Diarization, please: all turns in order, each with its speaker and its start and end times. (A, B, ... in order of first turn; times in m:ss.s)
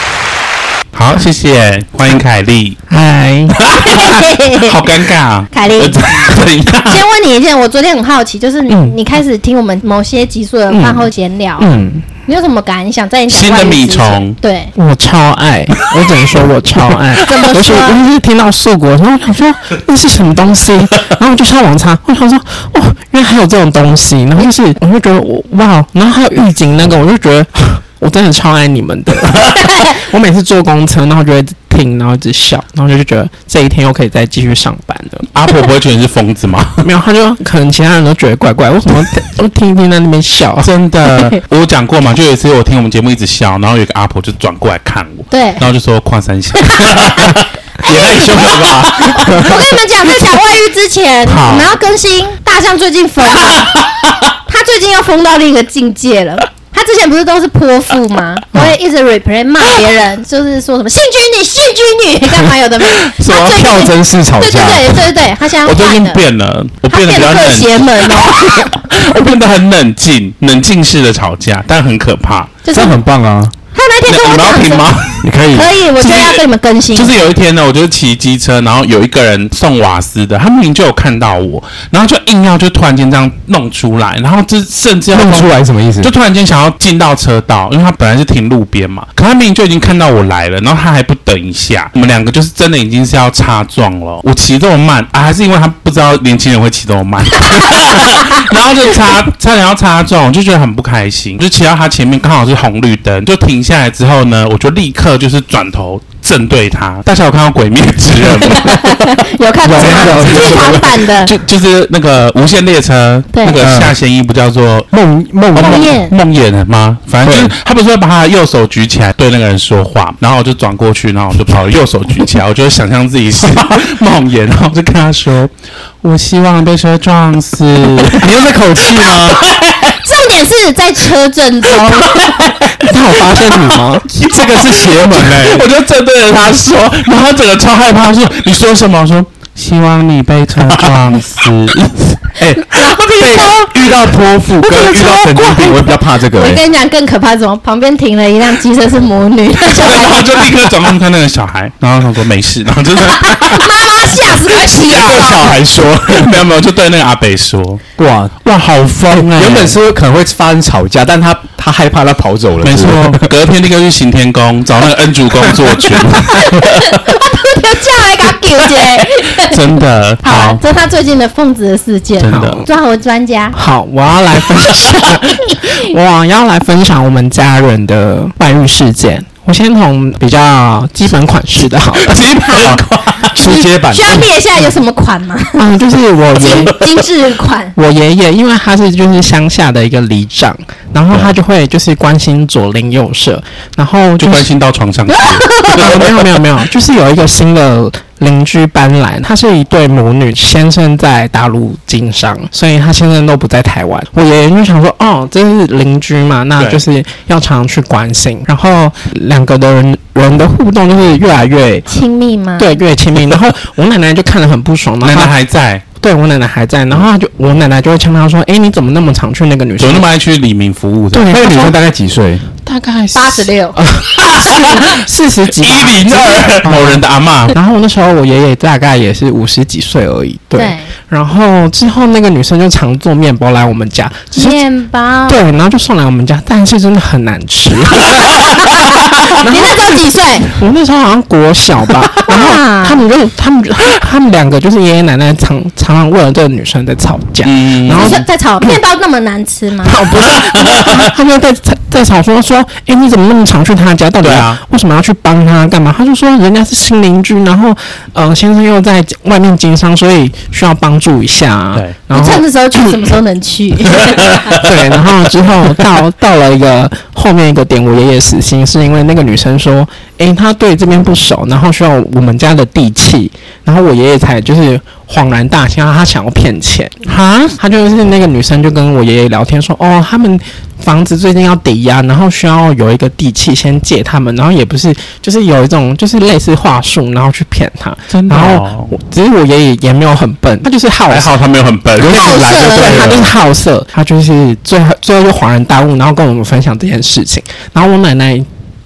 0:00.9-0:02.8 A
0:02.9-0:04.0 B
0:03.6-0:07.0 A
0:03.7-0:04.9 C
0:05.5-0:11.7 C
0:08.7-0:09.0 B
0:10.7-0:12.1 B
0:12.2-0:14.7 C
0:13.3-0:14.4 A
0:14.7-0:35.3 B
0:17.1-0:18.0 C
0:35.3-0:36.8 A
0:36.8-0:40.7 B
0:40.6-0:50.3 A
0:41.1-0:41.4 C
0:45.3-0:45.6 C
0:46.6-0:53.9 C
0:51.3-0:51.7 A
0:53.3-0:54.1 A
0:54.4-1:06.2 C
1:03.2-1:05.0 D
1:05.6-1:12.6 A
1:06.9-1:08.8 C
1:12.6-1:13.0 C
1:12.7-1:13.5 D
1:13.7-1:17.2 C
1:14.1-1:15.3 A
1:15.2-1:15.7 D
1:16.0-1:16.4 A
1:16.9-1:54.9 A
1:25.1-1:26.1 D
1:48.5-1:51.3 C
1:49.6-1:50.9 D
1:53.3-1:53.6 C
1:53.6-1:53.9 D
1:54.9-1:55.9 D
1:55.5-2:10.0 A
1:55.5-1:56.1 C
1:57.2-1:57.5 D
2:08.0-2:09.4 D
2:10.0-2:12.4 C
2:11.6-2:25.7 A
2:12.8-2:14.1 B
2:14.3-2:15.6 D
2:20.6-2:21.0 D
2:22.4-2:26.6 D
2:22.7-2:23.7 C
2:24.7-2:30.6 C
2:29.7-2:33.7 A
2:33.0-2:35.6 C
2:34.2-2:37.8 A
2:34.9-2:36.5 D
2:38.0-2:38.5 D
2:38.4-2:39.8 A
2:39.1-2:43.3 D
2:42.6-2:46.7 A
2:46.2-2:49.6 C
2:49.3-2:50.6 A
2:50.2-2:53.6 C
2:52.2-2:52.6 A
2:52.3-2:52.6 B
2:53.5-3:02.2 B
2:55.5-2:55.7 C
3:01.9-3:03.3 A
3:02.3-3:05.6 C
3:02.6-3:04.3 D
3:05.5-3:06.8 B
3:06.4-3:07.7 C
3:06.5-3:06.9 A
3:07.7-3:14.5 B
3:14.2-3:16.2 A
3:15.1-3:15.8 C
3:15.7-3:31.9 B
3:31.9-3:32.8 C
3:32.6-3:35.4 B
3:35.0-3:35.8 A
3:36.0-3:40.1 B
3:39.8-3:41.4 A
3:41.1-3:41.8 B
3:41.3-3:42.4 D
3:42.6-3:54.6 B
3:43.1-3:43.8 C
3:44.2-3:47.6 A
3:50.5-3:50.9 C
3:54.3-3:55.4 C
3:55.3-4:08.8 B
3:58.1-4:00.5 C
4:02.2-4:03.0 C
4:07.4-4:08.2 A
4:07.9-4:10.0 C
4:09.8-4:22.4 B
4:10.5-4:11.0 A
4:14.2-4:14.6 A
4:22.1-4:24.6 C
4:24.0-4:24.6 A
4:24.6-4:51.3 B
4:37.1-4:37.5 A
4:48.1-4:48.9 A
4:51.1-4:53.3 A
4:52.0-4:53.2 C
4:52.1-4:58.5 B
4:52.6-4:53.1 D